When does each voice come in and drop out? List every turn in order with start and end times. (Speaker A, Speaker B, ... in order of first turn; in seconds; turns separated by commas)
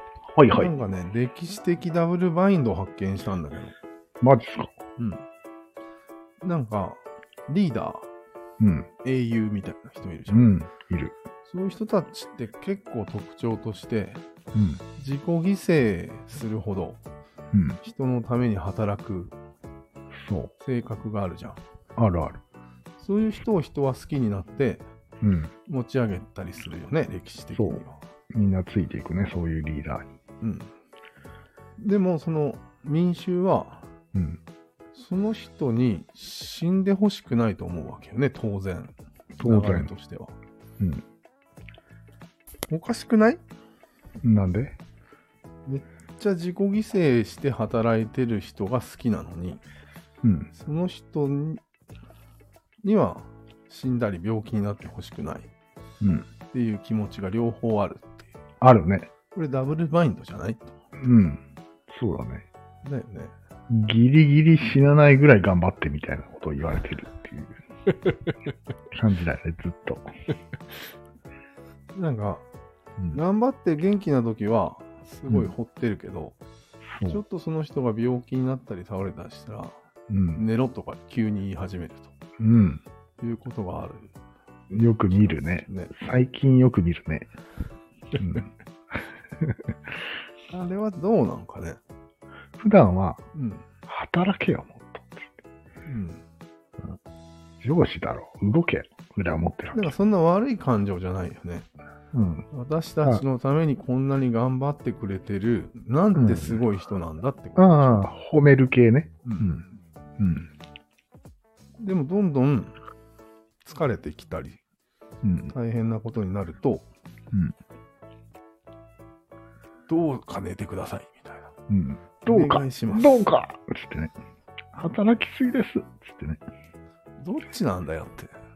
Speaker A: 0.3-0.7, Speaker B: 0.5-3.8, Speaker A: 4.2-4.7, Speaker B: 5.0-5.2, Speaker B: 6.4-8.1, Speaker A: 8.6-8.9, Speaker B: 9.0-10.5, Speaker A: 10.3-11.2, Speaker B: 11.4-14.2, Speaker A: 14.5-14.8, Speaker B: 15.0-17.0, Speaker A: 17.5-17.8, Speaker B: 17.8-19.3, Speaker A: 20.2-20.5, Speaker B: 20.6-21.6, Speaker A: 22.0-22.4, Speaker B: 23.0-24.9, Speaker A: 25.2-25.5, Speaker B: 25.7-28.0, Speaker A: 27.6-30.1, Speaker B: 30.4-30.7, Speaker B: 31.8-33.9, Speaker A: 34.1-34.4, Speaker B: 34.9-40.3, Speaker A: 39.4-39.9, Speaker B: 42.7-43.4, Speaker A: 44.2-44.8, Speaker B: 45.7-49.6, Speaker A: 50.2-50.5, Speaker B: 50.5-51.6, Speaker B: 52.8-55.5, Speaker A: 56.0-56.3, Speaker B: 56.5-58.3, Speaker A: 58.6-59.1, Speaker B: 59.3-60.8, Speaker A: 61.0-62.5, Speaker B: 62.8-63.3, Speaker A: 63.7-67.6, Speaker A: 68.9-70.1, Speaker B: 71.9-72.5, Speaker B: 73.1-76.4, Speaker A: 75.3-75.5, Speaker A: 76.9-77.2, Speaker B: 77.1-79.8, Speaker A: 80.1-80.4, Speaker B: 80.3-82.1, Speaker A: 82.4-82.8, Speaker B: 83.2-84.1, Speaker A: 84.7-87.3, Speaker B: 85.6-85.9, Speaker A: 88.2-88.5, Speaker A: 89.4-89.8, Speaker B: 90.5-91.8, Speaker A: 92.6-93.2, Speaker B: 93.3-93.7, Speaker A: 93.9-95.3, Speaker B: 95.9-96.2, Speaker A: 97.6-99.9, Speaker B: 99.7-101.7, Speaker A: 102.1-102.5, Speaker B: 102.5-108.0, Speaker A: 106.2-106.6, Speaker A: 107.6-109.7, Speaker B: 109.2-109.6, Speaker A: 110.2-110.5, Speaker B: 111.8-112.8, Speaker B: 113.6-114.6, Speaker A: 115.2-115.5, Speaker B: 115.5-116.9, Speaker B: 119.9-121.5, Speaker A: 121.7-124.1, Speaker B: 122.3-123.2, Speaker A: 124.7-126.4, Speaker B: 127.2-128.3